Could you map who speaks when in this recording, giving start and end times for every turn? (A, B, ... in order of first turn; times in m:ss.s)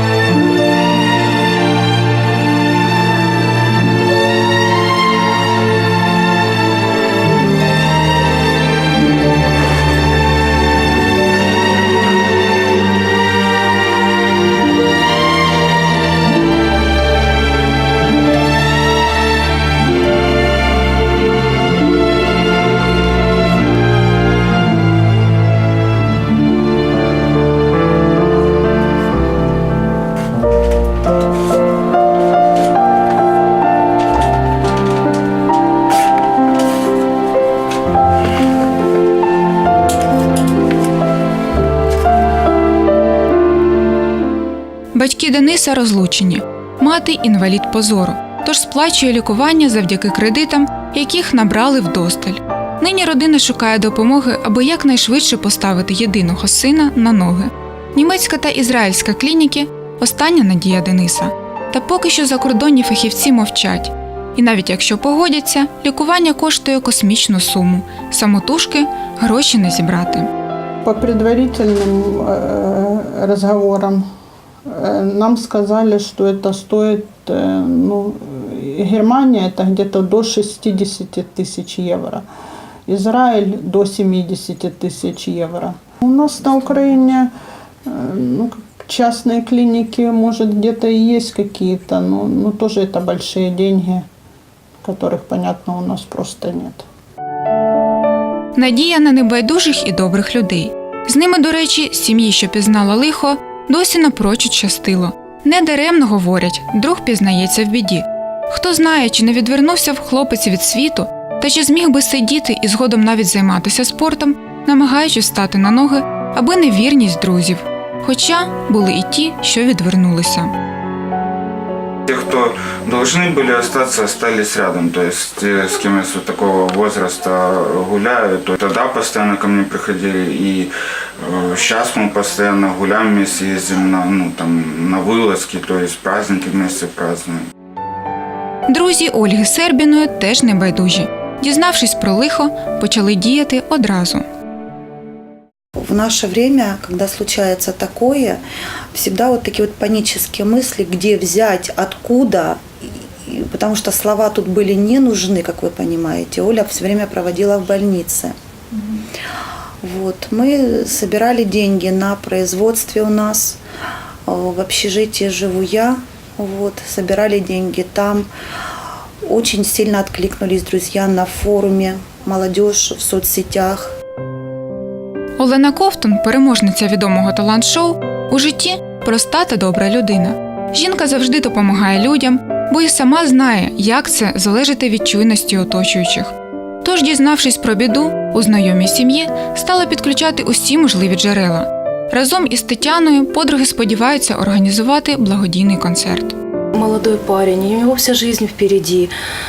0:44.9-1:10.3 A
1:10.8-1:14.0 B
1:14.7-1:22.2 B
1:22.9-1:27.3 B
1:27.8-1:34.0 B
1:34.8-1:36.8 B
1:38.5-2:00.5 A
2:02.1-2:17.5 C
2:18.7-2:24.2 A
2:25.8-2:39.0 D
2:39.8-2:43.6 D
2:44.3-2:48.3 D
2:49.2-2:53.9 D
2:55.4-3:16.4 A
3:16.7-3:19.1 E